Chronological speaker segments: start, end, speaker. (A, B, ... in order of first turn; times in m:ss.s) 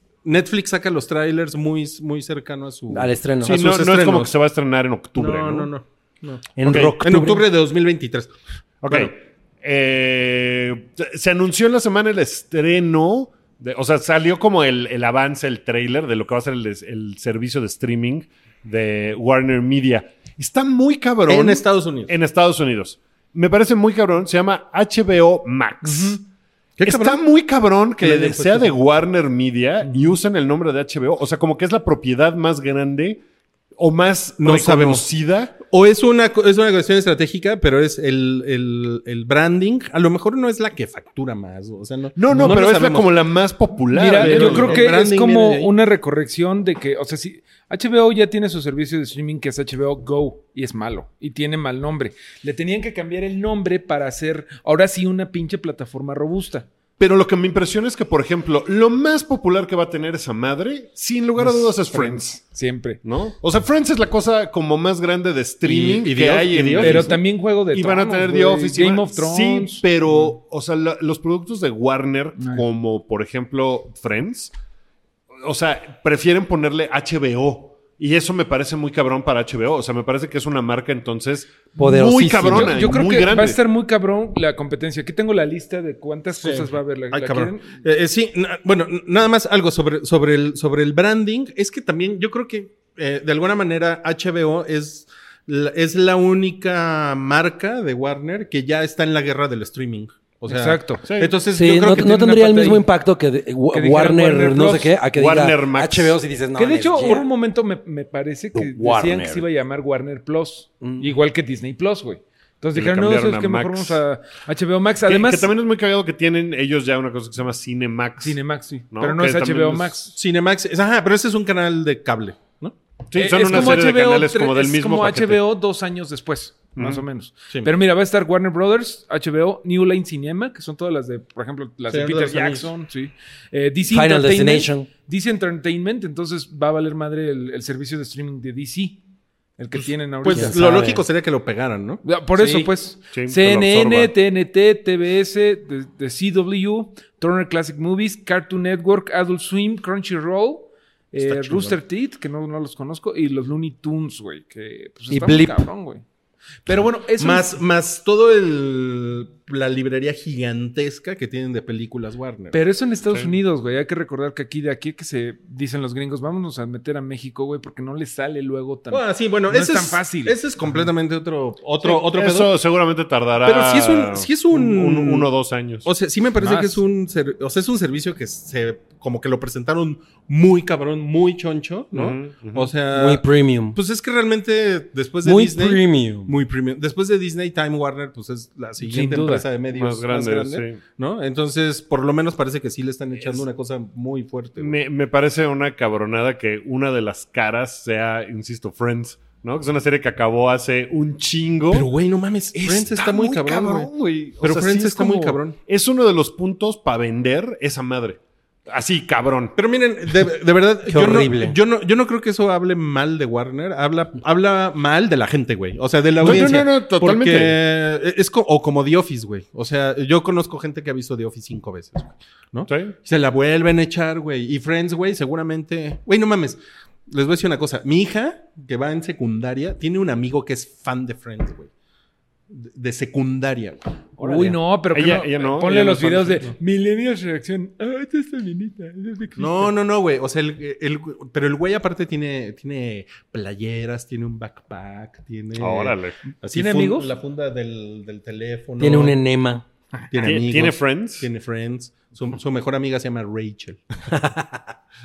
0:00.2-0:04.3 A
0:02.9-0:03.6 B
0:03.4-0:05.7 C
0:05.2-0:08.3 A
0:06.6-0:07.5 B
0:06.6-0:07.0 C
0:08.8-0:26.2 C
0:21.3-0:22.1 A
0:25.8-0:26.2 D
0:26.8-0:27.2 A
0:26.8-0:33.2 C
0:28.0-0:28.7 A
0:29.8-0:30.1 D
0:33.8-0:35.6 C
0:34.4-0:35.0 A
0:35.6-0:43.1 A
0:42.2-0:44.8 C
0:43.9-0:56.7 D
0:44.1-0:45.7 A
0:57.0-1:02.4 C
1:01.4-1:03.0 D
1:03.0-1:14.5 C
1:05.6-1:07.2 A
1:06.8-1:10.3 D
1:12.4-1:12.6 D
1:15.4-1:23.6 C
1:21.8-1:23.0 B
1:22.5-1:27.7 D
1:26.4-1:42.8 A
1:40.5-1:41.0 D
1:41.0-1:41.3 C
1:41.5-1:47.2 B
1:41.9-1:42.8 D
1:43.7-1:44.9 D
1:45.1-1:46.2 C
1:46.5-1:55.5 D
1:48.5-1:49.4 B
1:50.8-1:51.1 B
1:52.7-1:54.0 C
1:55.0-1:58.4 C
1:58.2-2:00.2 D
1:58.9-2:00.0 C
2:00.1-2:02.7 A
2:03.1-2:05.4 C
2:03.1-2:19.0 D
2:03.5-2:03.8 A
2:06.8-2:07.0 C
2:11.9-2:12.7 A
2:13.9-2:14.9 B
2:19.6-2:20.9 D
2:20.2-2:22.0 A
2:20.3-2:21.0 B
2:22.0-2:36.0 D
2:22.4-2:22.7 B
2:23.1-2:24.1 C
2:31.2-2:31.8 A
2:35.1-2:35.6 B
2:36.6-2:37.5 D
2:37.2-2:42.6 A
2:42.5-2:50.4 D
2:48.9-2:52.5 A
2:51.8-2:55.9 C
2:53.4-2:55.3 A
2:55.8-3:14.7 A
2:56.4-2:56.8 D
3:01.9-3:02.7 C
3:02.9-3:03.8 B
3:05.2-3:06.3 B
3:08.8-3:09.4 D
3:09.7-3:10.8 C
3:14.6-3:21.9 C
3:21.7-3:23.9 A
3:22.5-3:29.6 C
3:24.4-3:25.6 A
3:29.6-3:51.7 A
3:30.9-3:31.6 B
3:36.2-3:37.6 C
3:42.7-3:42.9 C
3:52.5-3:54.4 A
3:54.2-3:59.7 D
3:54.9-3:56.5 C
3:59.4-4:09.1 A
4:05.6-4:06.2 C
4:06.4-4:07.1 D
4:08.8-4:09.6 B
4:10.1-4:13.8 A
4:10.2-4:11.3 C
4:14.1-4:14.6 B